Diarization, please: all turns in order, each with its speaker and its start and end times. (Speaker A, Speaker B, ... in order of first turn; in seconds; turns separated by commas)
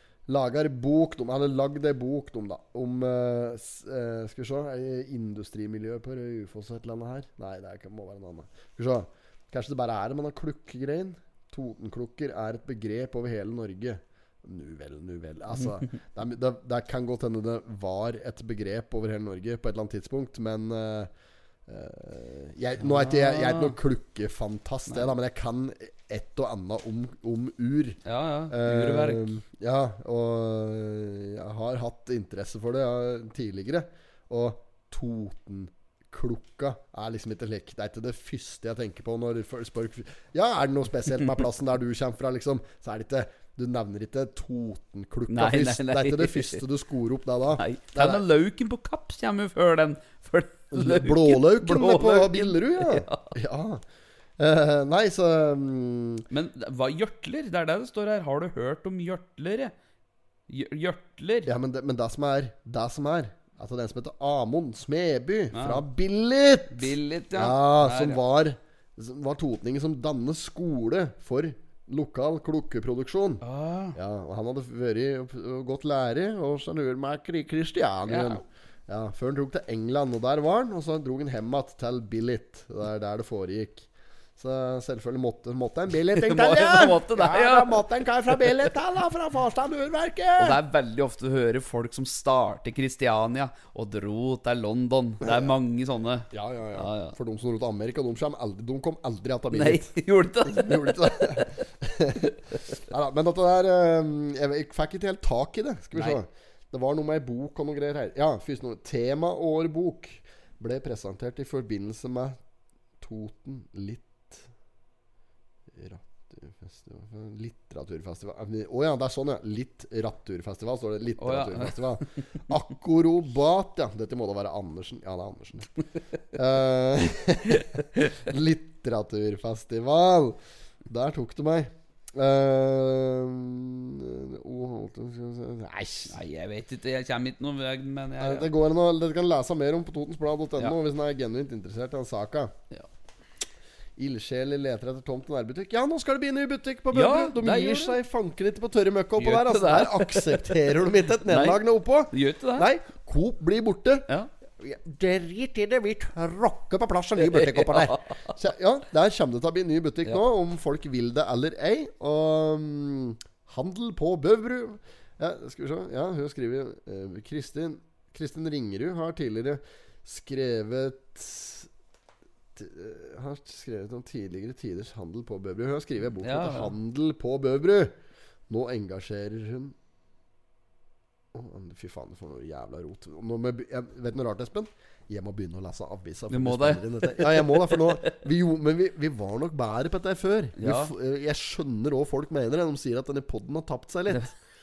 Speaker A: 0.3-21.1, Speaker A: 21.7-48.2, Speaker B: 22.8-23.8, Speaker B: 28.1-29.2, Speaker B: 45.3-46.6, Speaker B: 47.6-53.3, Speaker A: 50.7-53.8, Speaker A: 54.4-56.2, Speaker B: 56.3-59.7, Speaker B: 60.5-61.5, Speaker A: 61.5-73.4, Speaker B: 65.5-65.8, Speaker B: 66.7-68.2, Speaker B: 73.4-74.0, Speaker A: 74.0-90.6, Speaker B: 78.1-78.4, Speaker B: 86.1-88.7, Speaker B: 90.4-97.2, Speaker A: 96.3-112.4, Speaker B: 99.5-101.6, Speaker B: 106.0-106.2, Speaker A: 113.0-114.5, Speaker A: 115.7-125.7, Speaker B: 121.2-122.2, Speaker A: 126.3-136.2, Speaker B: 136.1-138.5, Speaker A: 138.2-142.5, Speaker A: 144.0-154.1, Speaker B: 146.9-148.0, Speaker B: 149.2-152.7, Speaker A: 154.6-171.7, Speaker B: 157.2-158.2, Speaker A: 172.6-178.0, Speaker B: 176.2-176.7, Speaker A: 178.5-179.8, Speaker A: 181.3-194.3, Speaker B: 186.3-188.1, Speaker B: 190.6-190.9